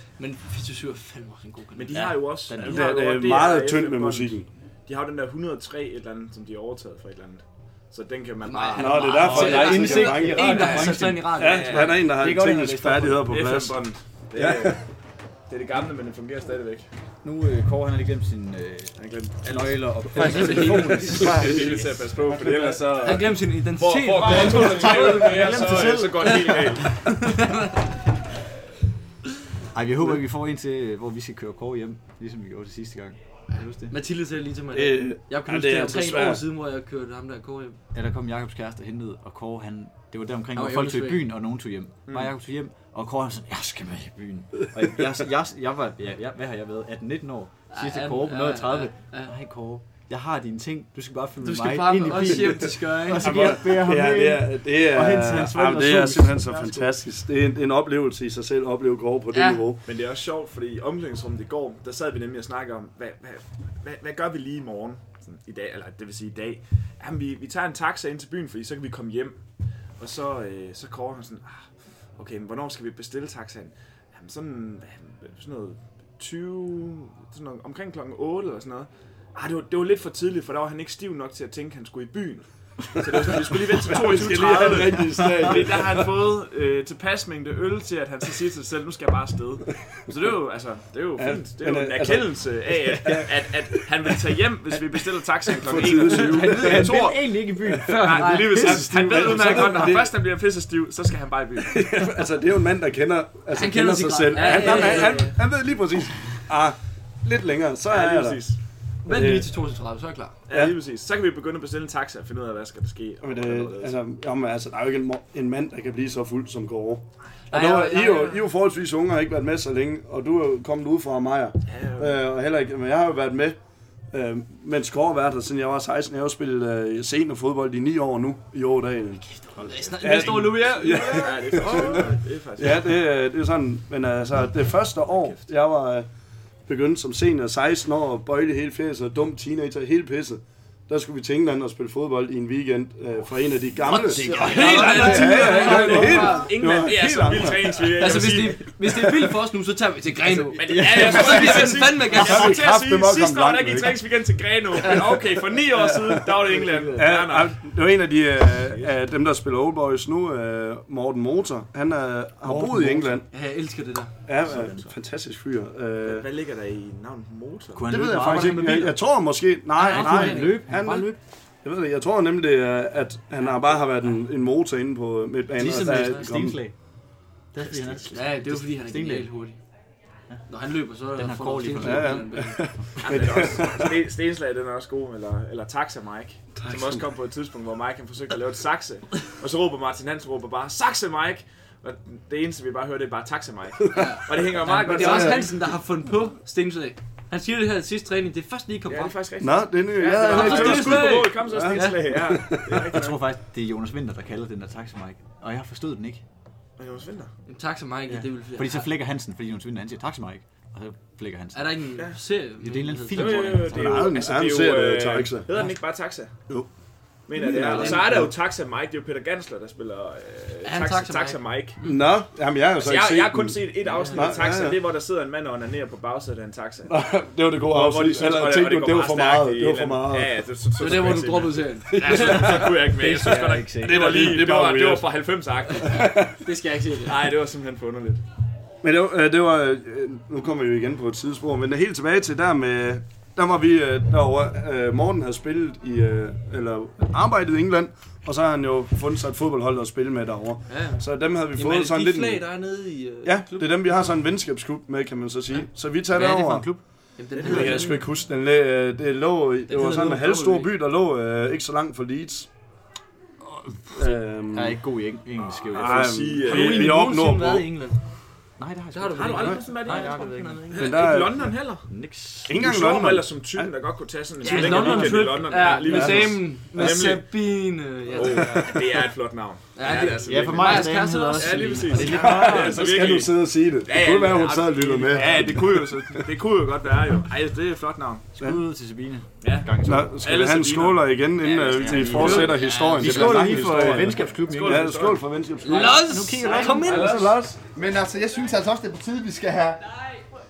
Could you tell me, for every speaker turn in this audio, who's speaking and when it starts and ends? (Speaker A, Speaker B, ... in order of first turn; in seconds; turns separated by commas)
Speaker A: 0.2-2.1, Speaker B: 1.8-9.9, Speaker C: 1.9-3.0, Speaker D: 2.6-4.5, Speaker A: 8.4-12.1, Speaker D: 8.8-14.8, Speaker C: 9.2-13.3, Speaker B: 11.6-11.9, Speaker B: 13.3-14.8, Speaker B: 15.5-16.9, Speaker C: 17.2-22.1, Speaker B: 19.0-27.1, Speaker A: 20.2-21.6, Speaker D: 22.3-23.1, Speaker A: 23.0-25.4, Speaker C: 24.2-26.9, Speaker A: 27.1-27.7, Speaker C: 29.7-33.9, Speaker A: 33.9-37.8, Speaker D: 34.7-36.4, Speaker C: 37.9-56.9, Speaker A: 40.5-41.3, Speaker B: 42.1-42.3, Speaker A: 47.7-49.3, Speaker A: 51.4-53.3, Speaker D: 53.2-59.8, Speaker A: 59.3-59.6, Speaker B: 59.9-69.4, Speaker B: 70.0-102.0, Speaker D: 83.0-86.2, Speaker D: 91.2-93.3, Speaker D: 95.5-97.0, Speaker C: 95.9-98.9, Speaker D: 97.7-100.1, Speaker A: 98.2-98.6, Speaker D: 101.7-108.5, Speaker A: 103.5-105.4, Speaker C: 104.5-105.2, Speaker B: 107.9-108.6, Speaker D: 109.0-109.5, Speaker A: 109.0-110.4, Speaker B: 110.5-114.0, Speaker D: 110.5-110.8, Speaker D: 113.2-123.6, Speaker A: 117.5-118.5, Speaker B: 121.7-122.2, Speaker D: 124.1-129.3, Speaker C: 129.5-130.6, Speaker A: 129.6-132.1, Speaker D: 130.0-136.1, Speaker B: 131.1-133.0, Speaker B: 135.0-135.5, Speaker D: 136.7-147.9, Speaker A: 143.9-146.9, Speaker C: 143.9-146.3, Speaker B: 144.2-148.8, Speaker A: 148.0-152.6, Speaker D: 148.9-149.3, Speaker B: 150.5-157.6, Speaker C: 150.6-151.5, Speaker D: 151.1-154.0, Speaker D: 154.8-156.2, Speaker C: 156.4-157.2, Speaker D: 156.9-163.3, Speaker B: 158.6-159.0, Speaker C: 162.4-163.2, Speaker A: 163.2-164.1, Speaker D: 164.3-166.3, Speaker C: 164.4-164.9, Speaker B: 166.0-168.0, Speaker C: 167.7-169.0, Speaker D: 167.9-171.1, Speaker A: 168.2-168.9, Speaker A: 169.8-171.1, Speaker C: 169.8-171.2, Speaker D: 171.6-176.6, Speaker C: 175.6-176.8, Speaker C: 177.5-179.3, Speaker B: 177.7-178.1, Speaker A: 178.1-179.6, Speaker A: 180.5-182.7, Speaker C: 181.1-182.3, Speaker D: 181.8-183.9, Speaker C: 182.9-183.4, Speaker B: 183.0-195.6, Speaker D: 186.6-187.1, Speaker A: 193.9-199.2, Speaker D: 194.8-195.6, Speaker B: 198.9-203.2, Speaker D: 199.4-202.8, Speaker A: 200.2-202.2, Speaker C: 202.8-206.2, Speaker B: 206.8-207.3, Speaker A: 207.5-208.9, Speaker C: 208.6-211.9, Speaker A: 211.5-213.7, Speaker C: 212.6-214.2, Speaker B: 213.1-216.3, Speaker D: 213.7-215.5, Speaker B: 217.3-221.8, Speaker D: 217.3-218.3, Speaker A: 217.4-218.3, Speaker A: 220.6-222.0, Speaker D: 221.8-224.8, Speaker B: 222.8-226.9, Speaker A: 223.9-224.4, Speaker D: 226.9-230.3, Speaker B: 227.7-236.3, Speaker A: 230.8-233.6, Speaker D: 231.9-232.7, Speaker C: 233.0-234.2, Speaker D: 233.8-235.1, Speaker D: 235.8-236.4, Speaker A: 236.4-237.2, Speaker B: 237.1-238.2, Speaker D: 238.8-252.5, Speaker A: 250.7-254.1, Speaker D: 253.2-256.7, Speaker A: 255.5-258.1, Speaker D: 257.4-262.5, Speaker C: 257.5-257.9, Speaker A: 259.7-260.7, Speaker C: 263.5-266.4, Speaker D: 263.9-264.8, Speaker B: 265.7-267.0, Speaker D: 265.8-267.7, Speaker A: 266.4-268.0, Speaker C: 268.6-270.8, Speaker A: 268.9-270.9, Speaker B: 269.0-271.9, Speaker D: 270.7-271.6, Speaker C: 271.9-272.7, Speaker D: 272.5-273.7, Speaker B: 272.5-277.4, Speaker A: 274.4-278.7, Speaker D: 274.5-276.9, Speaker B: 278.1-288.2, Speaker D: 278.2-278.8, Speaker A: 279.8-282.6, Speaker C: 280.3-282.9, Speaker D: 282.0-286.2, Speaker C: 288.4-290.2, Speaker B: 289.4-292.9, Speaker D: 289.8-297.6, Speaker C: 291.6-294.9, Speaker A: 292.1-293.8, Speaker B: 294.0-295.3, Speaker A: 295.6-297.3, Speaker C: 296.0-297.0, Speaker B: 296.4-297.4, Speaker E: 297.6-299.8